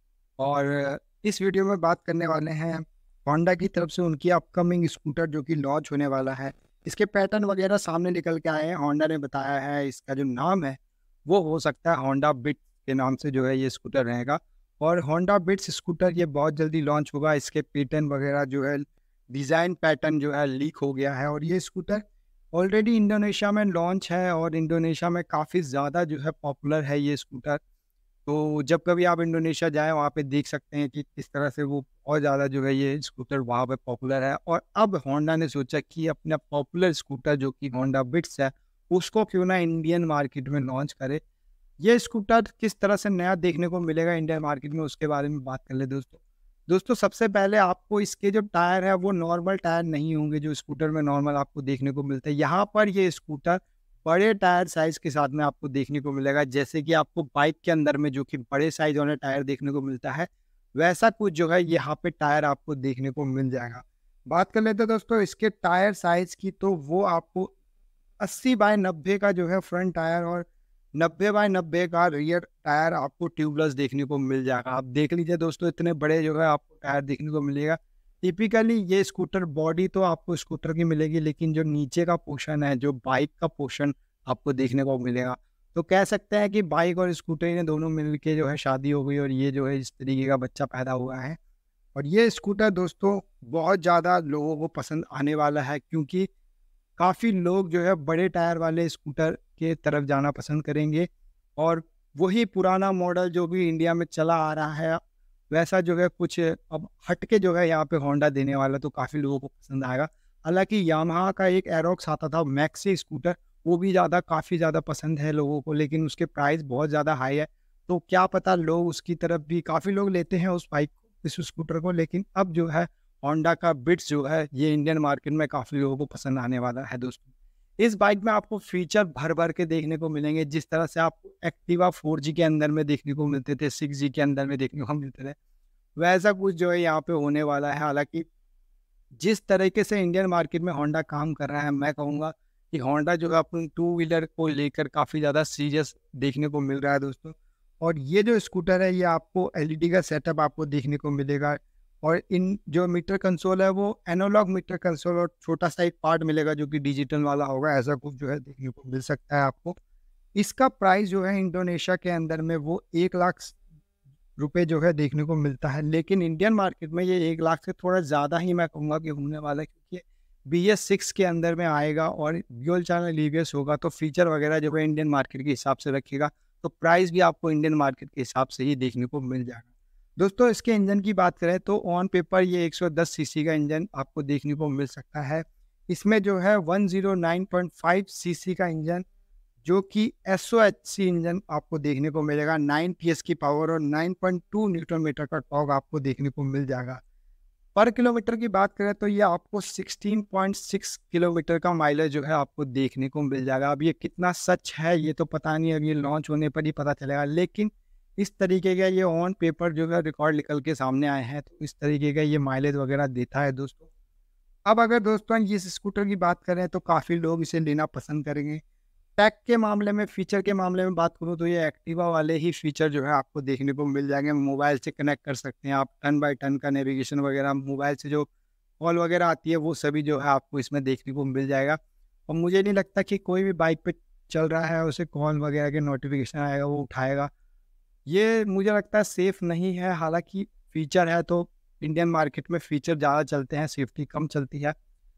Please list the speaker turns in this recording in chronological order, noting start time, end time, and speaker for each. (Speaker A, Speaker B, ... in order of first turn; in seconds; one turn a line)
Speaker A: 0.4-27.6
Speaker A: 28.2-41.2
Speaker A: 41.8-67.5
Speaker A: 68.2-91.4
Speaker A: 91.9-96.3
Speaker A: 97.0-105.0
Speaker A: 105.5-127.2
Speaker A: 127.8-135.3
Speaker A: 136.0-138.2
Speaker A: 139.2-159.8
Speaker A: 160.3-163.6
Speaker A: 164.4-179.7
Speaker A: 180.2-189.0
Speaker A: 189.6-197.0
Speaker A: 197.7-213.8
Speaker A: 214.6-218.6
Speaker A: 219.2-228.3
Speaker A: 228.8-237.3
Speaker A: 238.1-244.7